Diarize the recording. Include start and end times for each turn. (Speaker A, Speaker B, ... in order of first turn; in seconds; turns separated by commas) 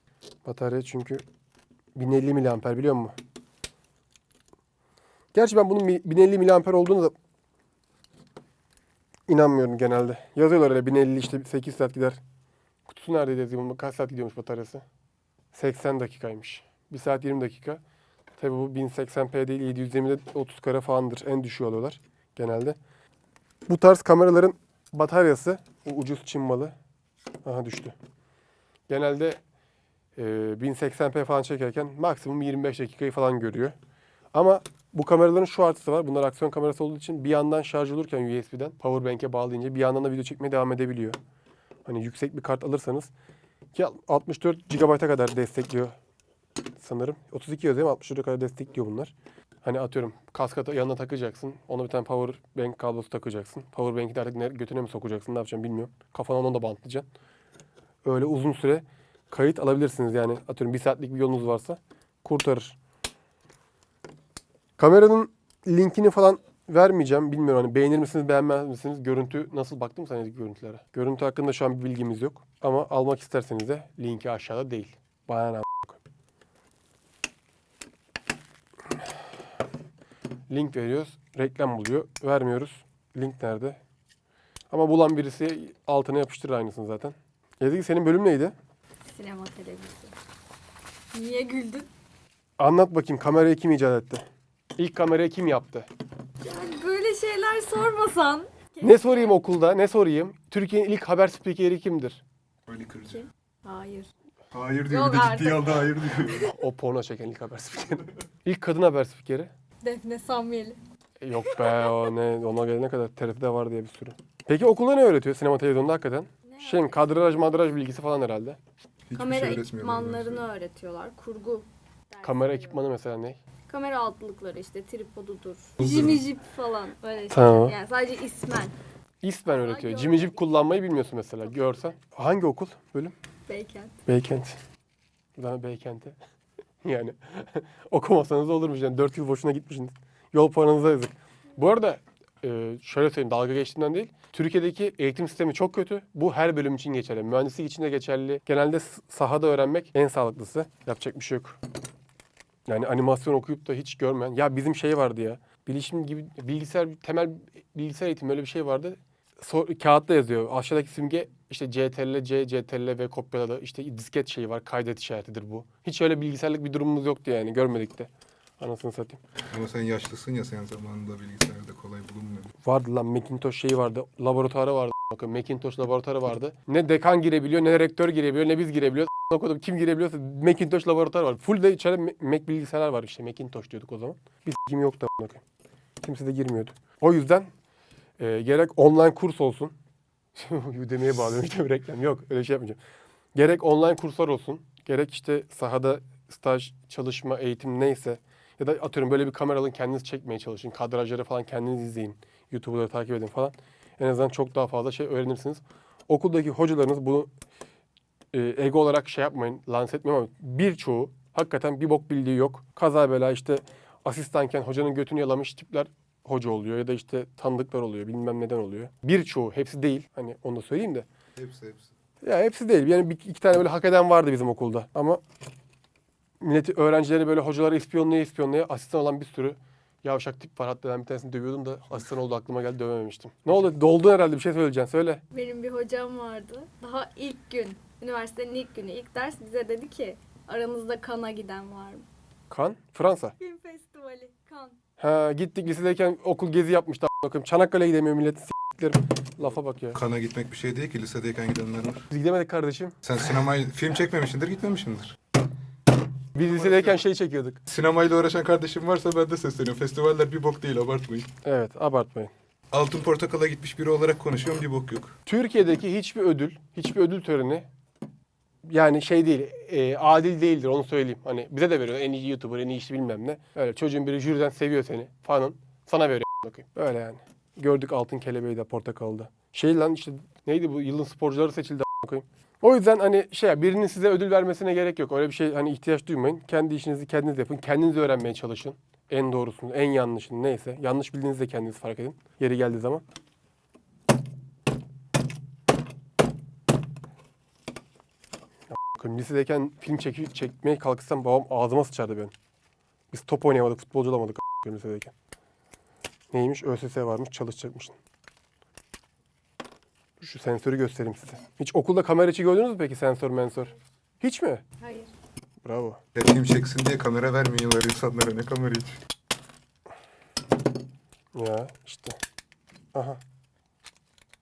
Speaker A: 0.4-1.2, Speaker A: 1.9-3.1, Speaker A: 5.3-7.1, Speaker A: 9.3-12.2, Speaker A: 12.9-14.8, Speaker A: 15.5-17.8, Speaker A: 18.4-22.8, Speaker A: 23.7-26.7, Speaker A: 27.4-27.9, Speaker A: 28.9-29.4, Speaker A: 30.1-33.8, Speaker A: 34.3-41.2, Speaker A: 41.8-43.1, Speaker A: 43.7-46.0, Speaker A: 46.8-57.1, Speaker A: 58.0-62.8, Speaker A: 64.8-76.0, Speaker A: 80.5-83.8, Speaker A: 84.7-88.5, Speaker B: 89.1-90.1, Speaker B: 91.1-91.9, Speaker A: 92.6-94.2, Speaker A: 94.8-95.9, Speaker B: 96.4-99.3, Speaker A: 98.8-102.2, Speaker C: 102.7-103.2, Speaker B: 103.1-104.1, Speaker C: 104.5-106.5, Speaker B: 104.8-106.3, Speaker A: 106.4-109.5, Speaker B: 109.8-110.8, Speaker A: 111.2-118.6, Speaker B: 116.5-117.3, Speaker C: 119.1-120.4, Speaker B: 119.1-122.8, Speaker A: 122.2-123.4, Speaker B: 123.7-128.7, Speaker C: 125.8-126.2, Speaker A: 127.3-127.7, Speaker A: 129.2-133.1, Speaker B: 129.5-130.4, Speaker B: 133.5-133.9, Speaker A: 134.1-134.6, Speaker A: 135.4-136.2, Speaker A: 136.8-151.6, Speaker A: 152.7-169.2, Speaker C: 169.5-172.5, Speaker A: 172.6-185.4, Speaker A: 186.0-187.5, Speaker A: 188.2-189.8, Speaker A: 190.3-192.8, Speaker A: 193.3-207.3, Speaker A: 208.3-221.1, Speaker C: 221.3-221.9, Speaker A: 222.2-225.2, Speaker A: 226.4-235.2, Speaker B: 235.3-242.1, Speaker A: 242.5-243.3, Speaker B: 243.4-244.8, Speaker A: 245.0-250.0, Speaker C: 249.9-252.1, Speaker A: 252.1-253.0, Speaker C: 253.0-255.2, Speaker A: 256.3-257.6, Speaker C: 256.4-257.0, Speaker C: 257.7-261.3, Speaker A: 261.4-262.3, Speaker C: 262.7-265.2, Speaker A: 265.2-267.7, Speaker A: 268.6-293.0, Speaker A: 298.7-302.3, Speaker A: 303.1-305.1, Speaker A: 306.3-307.9, Speaker A: 310.2-314.6, Speaker B: 314.8-315.1, Speaker A: 315.6-316.0, Speaker C: 316.1-319.0, Speaker A: 321.3-322.2, Speaker A: 322.9-323.2